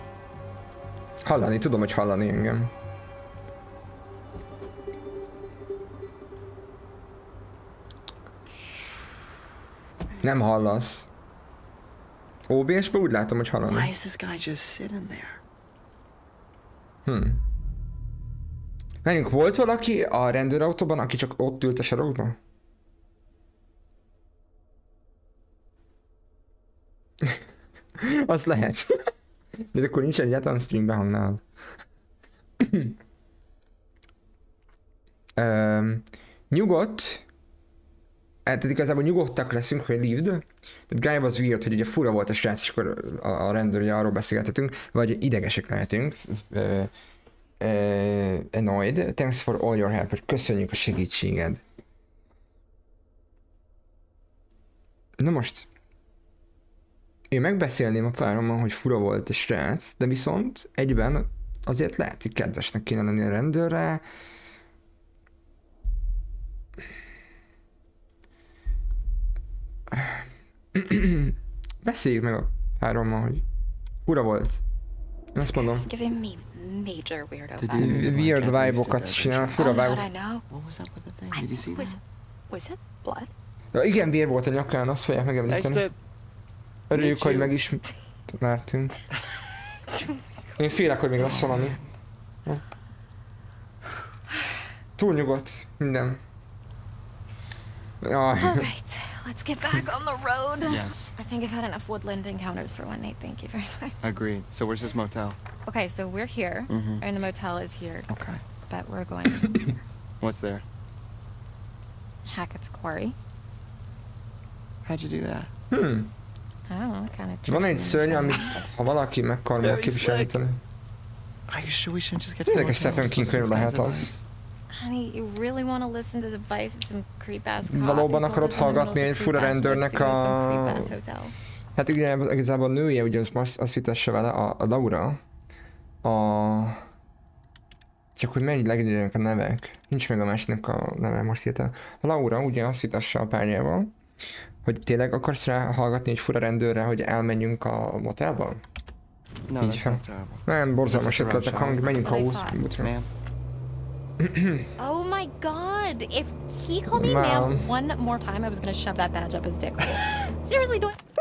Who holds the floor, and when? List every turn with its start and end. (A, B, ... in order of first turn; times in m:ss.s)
0:01.2-0:02.7 A
0:10.2-0:11.1 A
0:12.5-0:13.9 A
0:13.6-0:15.4 B
0:17.0-0:17.4 A
0:19.0-0:22.4 A
0:28.0-0:28.9 A
0:29.7-0:31.4 A
0:32.6-0:33.0 A
0:35.4-0:37.2 A
0:38.4-0:46.9 A
0:47.6-0:51.6 A
0:55.2-0:55.7 A
0:57.3-1:04.0 A
1:09.9-1:10.2 A
1:10.7-1:13.4 A
1:14.0-1:14.6 A
1:15.3-1:15.9 A
1:15.4-1:18.1 C
1:17.6-1:19.7 B
1:17.8-1:20.0 A
1:19.6-1:20.4 C
1:20.5-1:22.0 B
1:21.3-1:23.3 C
1:23.7-1:25.8 A
1:25.5-1:25.9 B
1:26.9-1:29.0 A
1:26.9-1:27.6 B
1:30.6-1:31.8 A
1:31.2-1:31.8 B
1:35.0-1:36.2 A
1:38.0-1:38.7 A
1:38.4-1:44.0 C
1:40.6-1:41.1 B
1:44.0-1:45.4 B
1:45.6-1:48.1 C
1:46.7-1:47.0 B
1:48.1-1:48.4 B
1:48.7-1:49.8 C
1:50.2-1:50.6 B
1:52.2-1:53.2 C
1:54.8-1:55.5 B
1:55.7-1:56.1 A
1:56.7-1:58.6 C
1:57.5-2:00.6 A
1:59.6-2:00.4 B
2:01.5-2:04.2 B
2:02.5-2:04.1 A
2:04.7-2:11.3 C
2:07.6-2:10.9 A
2:11.8-2:15.2 A
2:16.0-2:16.8 A
2:18.2-2:23.9 A
2:24.6-2:28.6 A
2:29.5-2:31.9 B
2:29.6-2:32.9 A
2:31.8-2:32.6 C
2:32.8-2:33.1 B
2:34.2-2:34.7 A
2:34.8-2:41.0 C
2:36.9-2:37.7 A